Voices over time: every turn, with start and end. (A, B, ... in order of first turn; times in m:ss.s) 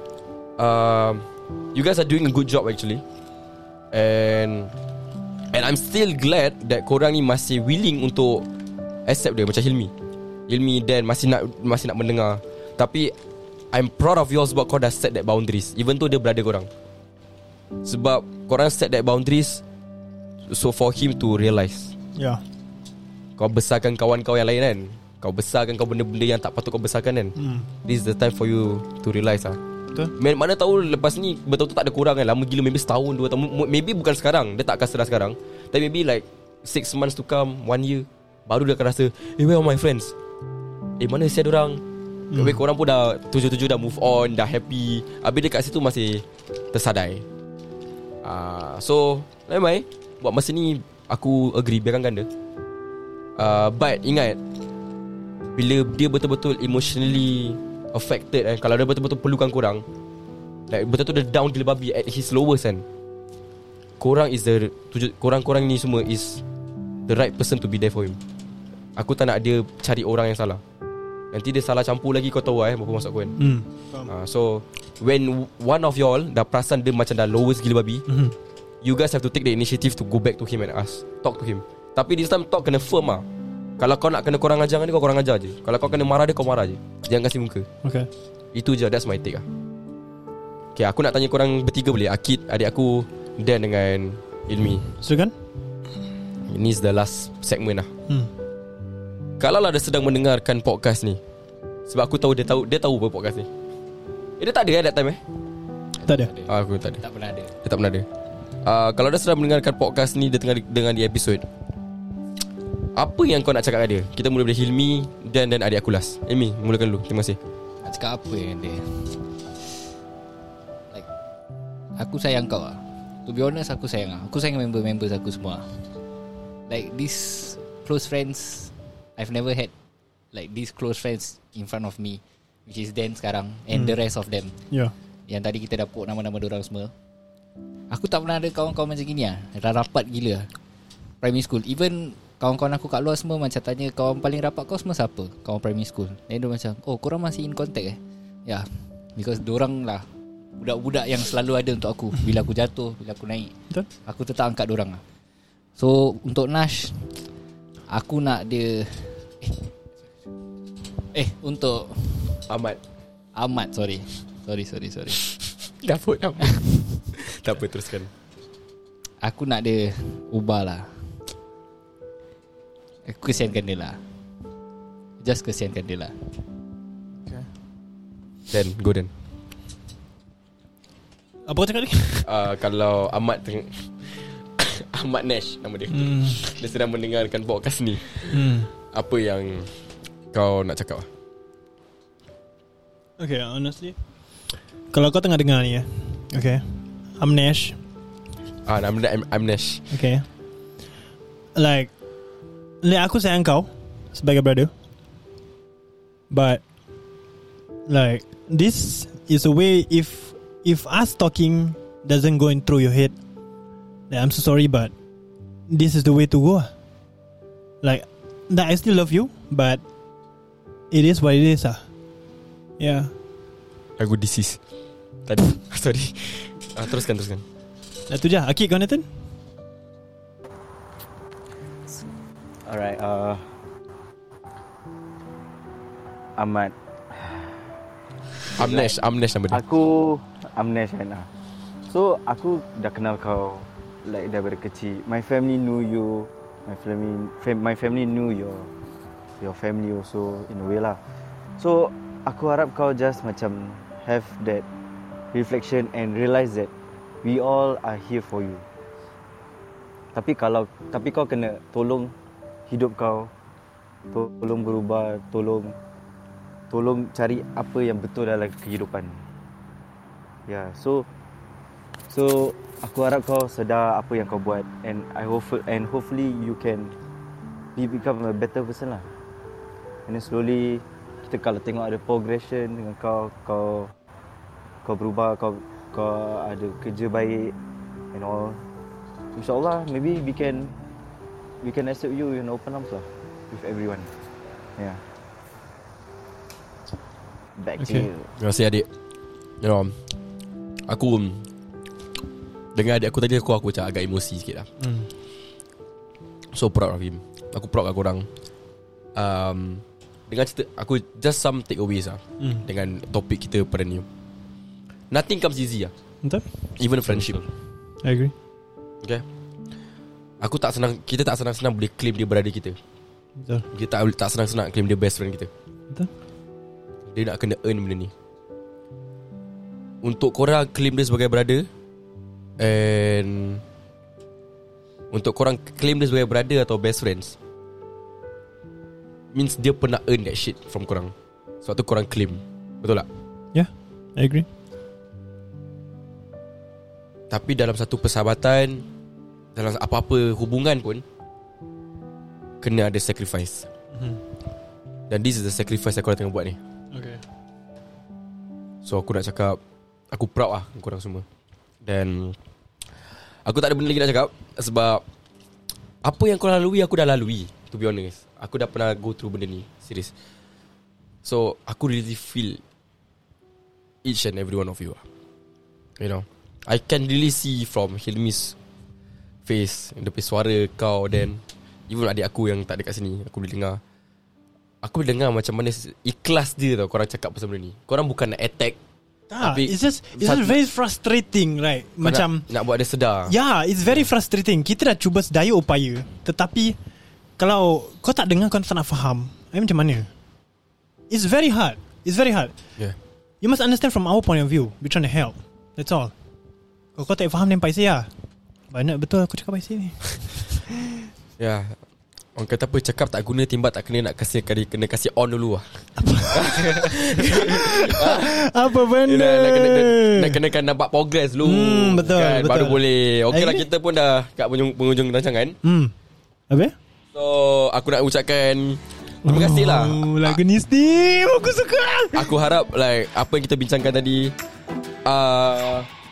0:00.6-0:03.0 A
0:03.9-0:04.7 A
0:05.5-0:08.5 A
0:09.0-0:09.9 A
0:10.5-0:13.1 A
0:13.7-0:16.7 A
0:17.8-0:19.6 A
0:20.5-0:21.9 A
0:22.2-0:22.4 B
0:23.4-0:27.3 A
0:27.4-0:27.7 B
0:27.8-0:29.6 A
0:30.2-0:40.1 A
0:41.0-0:41.8 A
0:42.3-0:42.6 B
0:42.3-0:47.2 A
0:48.2-0:52.3 A
0:53.4-0:54.4 A
0:55.5-0:59.8 A
1:00.7-1:02.8 A
1:04.0-1:06.4 A
1:07.0-1:08.2 A
1:09.0-1:10.6 A
1:11.3-1:13.4 A
1:13.4-1:14.1 B
1:14.1-1:18.0 A
1:18.1-1:18.3 B
1:18.8-1:23.2 A
1:23.8-1:27.7 A
1:27.8-1:28.1 B
1:28.5-1:29.4 A
1:30.8-1:34.9 A
1:35.0-1:35.3 B
1:36.5-1:37.9 A
1:39.4-1:41.2 A
1:41.9-1:43.5 A
1:44.4-1:45.2 A
1:46.0-1:47.5 C
1:46.5-1:47.0 A
1:47.6-1:48.0 A
1:48.6-1:51.4 A
1:53.0-1:57.4 A
1:57.8-1:59.7 C
2:02.0-2:05.8 C
2:06.7-2:09.7 C
2:10.3-2:14.6 C
2:15.3-2:16.9 C
2:17.9-2:20.5 C
2:21.2-2:30.0 C
2:30.6-2:33.5 C
2:34.0-2:35.0 C
2:35.8-2:37.1 C
2:37.9-2:39.7 C
2:41.1-2:42.4 C
2:42.5-2:42.8 A
2:43.4-2:45.3 C
2:45.7-2:48.1 A
2:49.2-2:51.2 C
2:53.0-2:54.0 C
2:55.2-2:56.1 C
2:58.5-2:59.1 A
3:01.5-3:02.3 B
3:02.2-3:08.4 A
3:05.9-3:06.4 B
3:08.3-3:08.7 B
3:08.9-3:09.7 A
3:10.3-3:11.0 A
3:13.2-3:13.9 B
3:14.9-3:16.6 B
3:17.2-3:17.8 B
3:18.6-3:19.8 A
3:19.9-3:20.2 B
3:21.6-3:21.9 B
3:22.8-3:24.7 B
3:26.3-3:26.6 B
3:27.9-3:33.1 B
3:34.1-3:34.9 B
3:35.7-3:36.7 B
3:37.8-3:39.8 B
3:40.9-3:41.8 B
3:42.8-3:43.1 B
3:44.0-3:44.6 A
3:45.2-3:47.4 A
3:48.1-3:49.0 B
3:52.7-3:53.4 D
3:56.4-3:57.5 D
3:58.6-3:59.0 D
3:58.6-3:59.6 A
3:59.5-4:01.3 D
4:01.9-4:08.7 D
4:09.4-4:11.0 D
4:11.6-4:14.6 D
4:15.3-4:16.7 D
4:17.2-4:18.6 D
4:20.1-4:22.1 D
4:22.7-4:23.3 D
4:24.1-4:25.7 D
4:26.7-4:29.2 D
4:30.5-4:31.1 D
4:32.1-4:36.9 D
4:37.7-4:39.0 D
4:40.1-4:43.9 D
4:44.8-4:47.5 D
4:48.1-4:48.6 D
4:49.3-4:50.7 D
4:51.6-4:54.1 D
4:57.6-4:58.3 D
4:57.8-4:58.1 B
4:58.4-4:58.9 A
4:59.6-5:00.0 A
5:00.9-5:01.4 A
5:02.7-5:04.7 A
5:04.8-5:05.1 B
5:06.5-5:08.2 A
5:09.1-5:14.0 A
5:12.4-5:12.6 B
5:15.1-5:15.9 A
5:16.8-5:17.4 A
5:18.0-5:18.3 B
5:20.4-5:22.8 A
5:23.4-5:23.6 B
5:23.7-5:25.5 A
5:27.1-5:28.1 A
5:30.0-5:31.7 A
5:32.6-5:33.6 A
5:35.1-5:37.4 A
5:39.3-5:43.0 A
5:43.5-5:44.4 B
5:47.3-5:48.8 A
5:49.5-5:51.0 A
5:52.6-5:53.7 A
5:53.9-5:54.2 B
5:55.1-5:56.6 A
5:56.9-5:57.2 B
5:58.8-5:59.6 A
6:00.1-6:01.2 A
6:01.8-6:02.4 A
6:03.4-6:05.0 A
6:06.0-6:10.1 A
6:11.2-6:12.6 A
6:14.0-6:15.0 A
6:16.0-6:18.5 A
6:19.4-6:23.8 A
6:24.8-6:28.8 A
6:29.3-6:32.4 B
6:29.4-6:30.6 A
6:32.0-6:33.3 A
6:33.3-6:36.8 B
6:37.4-6:40.1 B
6:41.1-6:42.5 B
6:43.4-6:46.1 B
6:47.0-6:48.1 B
6:48.7-6:51.0 B
6:51.4-6:51.8 A
6:52.4-7:05.6 A
6:56.0-7:00.4 B
7:01.4-7:03.6 B
7:05.6-7:05.9 B
7:07.1-7:10.4 A
7:09.2-7:12.3 B
7:12.1-7:14.3 A
7:15.0-7:15.9 A